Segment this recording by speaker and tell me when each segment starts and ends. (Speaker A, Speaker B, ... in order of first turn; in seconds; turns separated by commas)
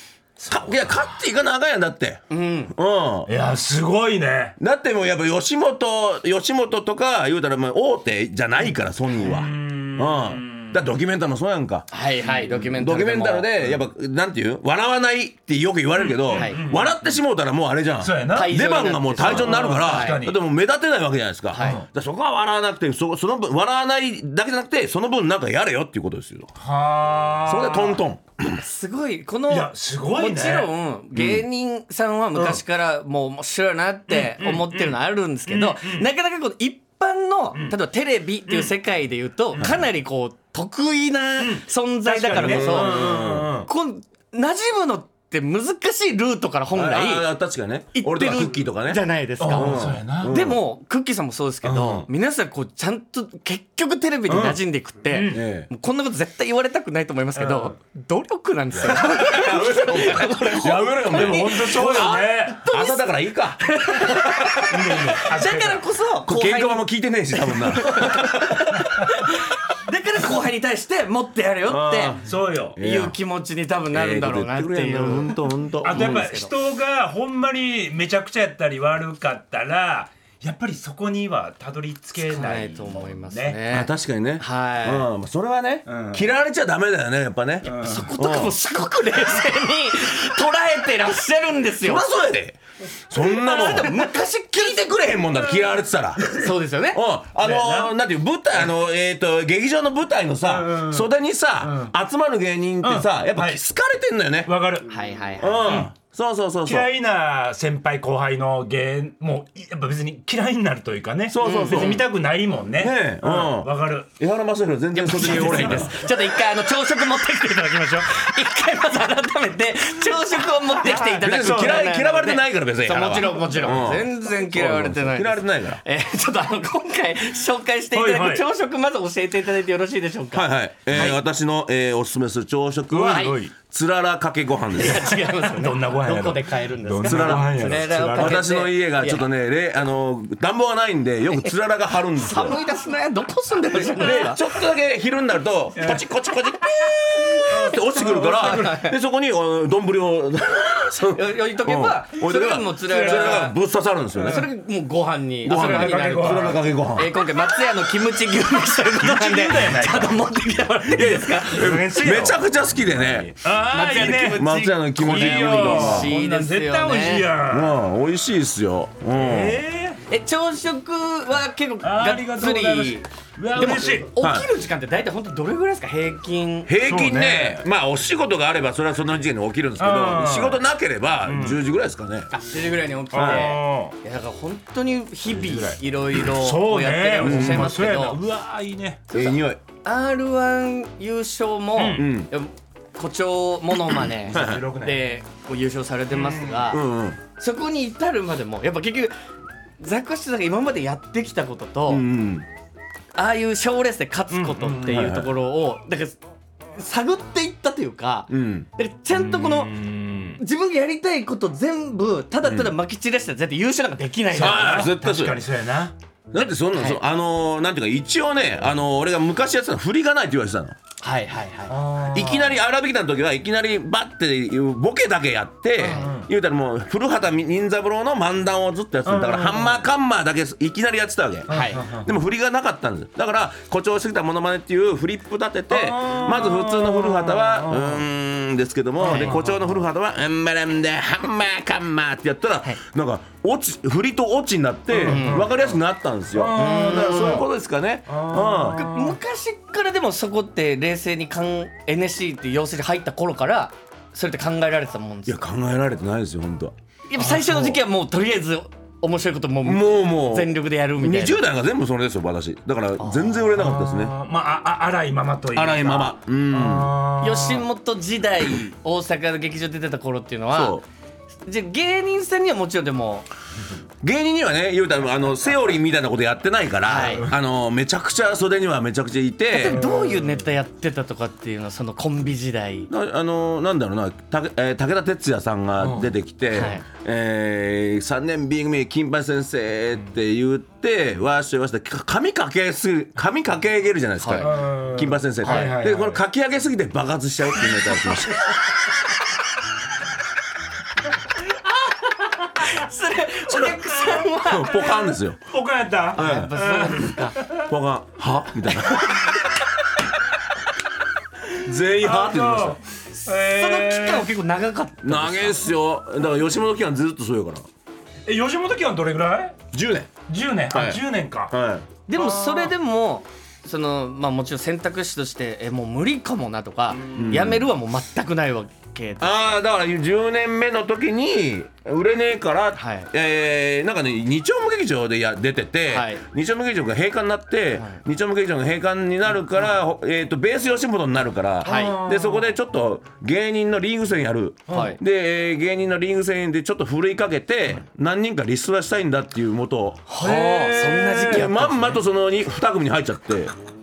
Speaker A: 0.4-1.1, Speaker B: 0.5-3.3, Speaker C: 2.3-2.7, Speaker A: 3.3-4.6, Speaker B: 4.6-26.5, Speaker A: 9.2-10.8, Speaker C: 11.9-13.5, Speaker A: 16.0-16.9, Speaker C: 16.3-16.6, Speaker A: 18.0-18.5, Speaker C: 18.3-20.2, Speaker A: 19.2-20.4, Speaker C: 21.5-21.8, Speaker A: 21.6-21.8, Speaker A: 26.6-28.0, Speaker B: 27.4-28.6, Speaker C: 28.6-47.3, Speaker A: 29.5-30.7, Speaker B: 31.1-31.4, Speaker A: 32.3-32.6, Speaker A: 34.1-36.1, Speaker B: 39.6-39.8, Speaker A: 41.4-43.7, Speaker B: 42.3-43.5, Speaker B: 46.7-50.6, Speaker C: 47.9-63.0, Speaker A: 49.4-50.3, Speaker A: 51.6-52.1, Speaker A: 54.3-55.4, Speaker B: 55.3-55.7, Speaker A: 57.3-57.7, Speaker B: 58.7-63.6, Speaker A: 58.8-62.7, Speaker C: 63.6-66.8, Speaker A: 64.1-65.8, Speaker B: 66.2-68.2, Speaker C: 67.4-72.1, Speaker A: 68.5-69.1, Speaker B: 71.7-73.2, Speaker A: 72.2-72.8, Speaker C: 72.8-76.5, Speaker B: 73.9-76.3, Speaker A: 75.8-83.6, Speaker C: 82.2-85.1, Speaker B: 83.7-88.5, Speaker A: 85.9-86.2, Speaker A: 87.6-88.1, Speaker C: 87.7-92.0, Speaker B: 91.8-96.4, Speaker C: 93.1-94.9, Speaker A: 96.2-96.5, Speaker C: 96.3-97.0, Speaker B: 96.9-104.5, Speaker A: 97.4-97.9, Speaker A: 100.5-101.1, Speaker A: 101.6-101.9, Speaker A: 102.8-103.6, Speaker A: 104.5-104.9, Speaker C: 104.9-105.9, Speaker B: 105.4-106.9, Speaker A: 105.6-105.9, Speaker A: 106.6-114.1, Speaker B: 111.3-112.0, Speaker C: 111.4-112.0, Speaker B: 112.8-115.9, Speaker C: 114.9-131.2, Speaker A: 115.1-116.0, Speaker A: 120.8-121.8, Speaker B: 121.1-125.8, Speaker A: 123.4-123.8, Speaker A: 127.9-128.4, Speaker B: 130.3-135.1, Speaker A: 132.9-133.5, Speaker C: 133.1-133.4, Speaker C: 134.8-139.2, Speaker A: 135.0-138.5, Speaker B: 137.0-142.6, Speaker C: 142.1-144.4, Speaker A: 143.8-144.3, Speaker B: 143.9-154.5, Speaker A: 145.8-146.0, Speaker C: 147.3-148.9, Speaker A: 147.5-148.8, Speaker C: 151.1-153.6, Speaker A: 152.6-153.5, Speaker C: 154.1-161.8, Speaker A: 154.2-154.5, Speaker B: 155.4-157.1, Speaker A: 155.5-156.6, Speaker A: 159.0-160.2, Speaker A: 160.9-162.4, Speaker B: 160.9-163.3, Speaker A: 163.3-167.8, Speaker C: 163.7-167.3, Speaker B: 164.0-166.1, Speaker B: 167.5-169.6, Speaker A: 169.1-170.0, Speaker C: 170.1-176.7, Speaker A: 171.8-174.1, Speaker B: 174.2-174.5, Speaker B: 176.7-182.3, Speaker A: 176.8-177.6, Speaker A: 179.8-180.6, Speaker A: 181.2-181.6, Speaker C: 182.3-188.2, Speaker A: 183.1-183.9, Speaker B: 183.1-183.5, Speaker A: 185.3-189.0, Speaker B: 187.2-187.7, Speaker C: 189.1-196.8, Speaker B: 189.1-189.6, Speaker A: 191.8-192.1, Speaker B: 191.9-192.3, Speaker A: 194.2-195.0, Speaker B: 194.3-194.7, Speaker A: 196.1-196.7, Speaker B: 196.7-197.2, Speaker C: 197.4-199.1, Speaker C: 199.8-202.1, Speaker B: 201.9-202.5, Speaker C: 203.1-206.2, Speaker A: 204.3-205.1, Speaker B: 204.8-205.3, Speaker C: 206.7-209.7, Speaker B: 208.3-208.7, Speaker A: 209.1-210.4, Speaker C: 210.4-214.9, Speaker B: 212.4-212.7, Speaker A: 214.3-215.9, Speaker B: 214.3-215.4, Speaker B: 216.3-220.8, Speaker C: 216.7-217.0, Speaker C: 221.0-221.7, Speaker A: 221.7-222.6, Speaker B: 222.1-248.9, Speaker A: 225.8-226.3, Speaker C: 225.8-226.1, Speaker A: 229.0-229.8, Speaker A: 231.5-232.1, Speaker C: 231.5-231.8, Speaker A: 235.7-238.0, Speaker A: 239.0-239.8, Speaker C: 239.0-239.4, Speaker A: 244.9-245.8, Speaker C: 245.0-245.5, Speaker A: 246.3-247.4, Speaker C: 246.5-247.4, Speaker A: 248.1-249.2, Speaker C: 248.7-255.5, Speaker B: 255.2-256.7, Speaker C: 257.1-261.4, Speaker A: 257.2-257.8, Speaker B: 259.6-264.1, Speaker C: 263.0-263.5, Speaker A: 263.5-267.6, Speaker B: 265.5-266.9, Speaker C: 267.2-270.8, Speaker B: 270.5-270.8, Speaker C: 271.4-273.3, Speaker B: 274.0-279.9, Speaker C: 276.9-277.2, Speaker C: 279.5-282.9, Speaker A: 279.6-280.5, Speaker B: 282.9-298.6, Speaker A: 285.8-286.1, Speaker C: 286.5-286.8, Speaker C: 294.2-294.5, Speaker A: 294.4-296.2, Speaker C: 295.4-295.7, Speaker A: 301.9-302.7, Speaker C: 302.5-304.9, Speaker A: 303.5-307.7, Speaker B: 304.3-305.5, Speaker B: 306.1-306.5, Speaker C: 306.1-307.4, Speaker B: 307.6-309.2, Speaker C: 308.9-309.3, Speaker B: 311.6-312.8, Speaker A: 311.6-314.3, Speaker C: 313.2-315.7, Speaker B: 315.0-317.7, Speaker A: 318.2-319.6, Speaker B: 319.7-320.1, Speaker A: 320.3-321.5, Speaker B: 320.7-321.9, Speaker C: 322.1-329.5, Speaker A: 322.1-322.7, Speaker A: 326.9-327.3, Speaker B: 327.1-327.6, Speaker B: 329.2-350.0, Speaker C: 332.7-333.1, Speaker C: 335.9-336.2, Speaker A: 341.6-342.6, Speaker C: 341.6-342.0, Speaker A: 344.7-344.9, Speaker C: 344.7-345.0, Speaker C: 350.1-352.0, Speaker A: 350.1-351.5, Speaker B: 351.3-353.5